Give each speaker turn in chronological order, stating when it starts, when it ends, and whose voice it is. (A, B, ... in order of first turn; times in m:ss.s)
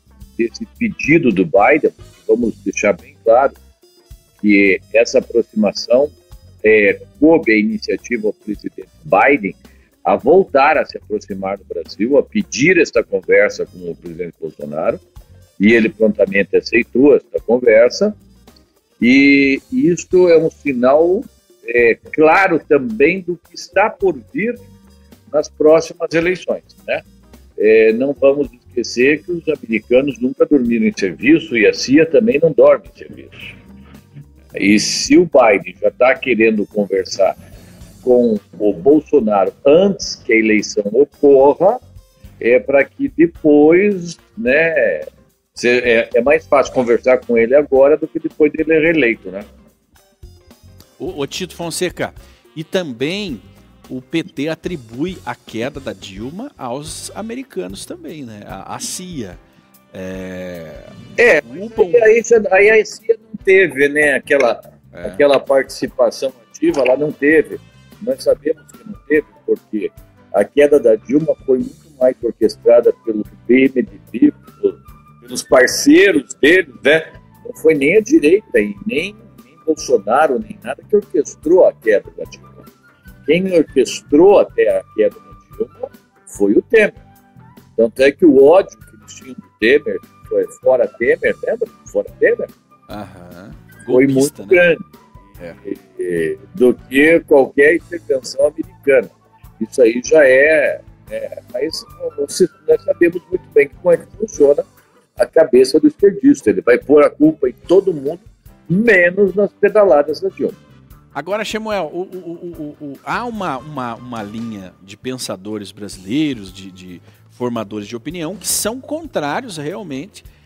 0:00.4-0:03.5 A
0:04.4-0:06.1 A
0:06.6-0:15.0 A
0:15.6-0:18.1 A
0:19.0-0:24.6 A
0:25.3-0:27.0 A
0:27.6-0:33.5 A
0:34.6-0:37.3 A
0:38.0-0:41.8 A
0:42.4-0:49.4 A
0:51.0-0:59.4 B
0:59.9-1:00.9 B
1:01.2-1:22.6 A
1:01.4-1:02.1 B
1:04.9-1:05.2 B
1:23.3-1:26.9 A
1:27.8-1:32.5 A
1:32.9-1:34.6 B
1:33.8-1:34.8 A
1:35.7-1:44.6 A
1:45.2-1:50.6 A
1:51.1-2:00.2 B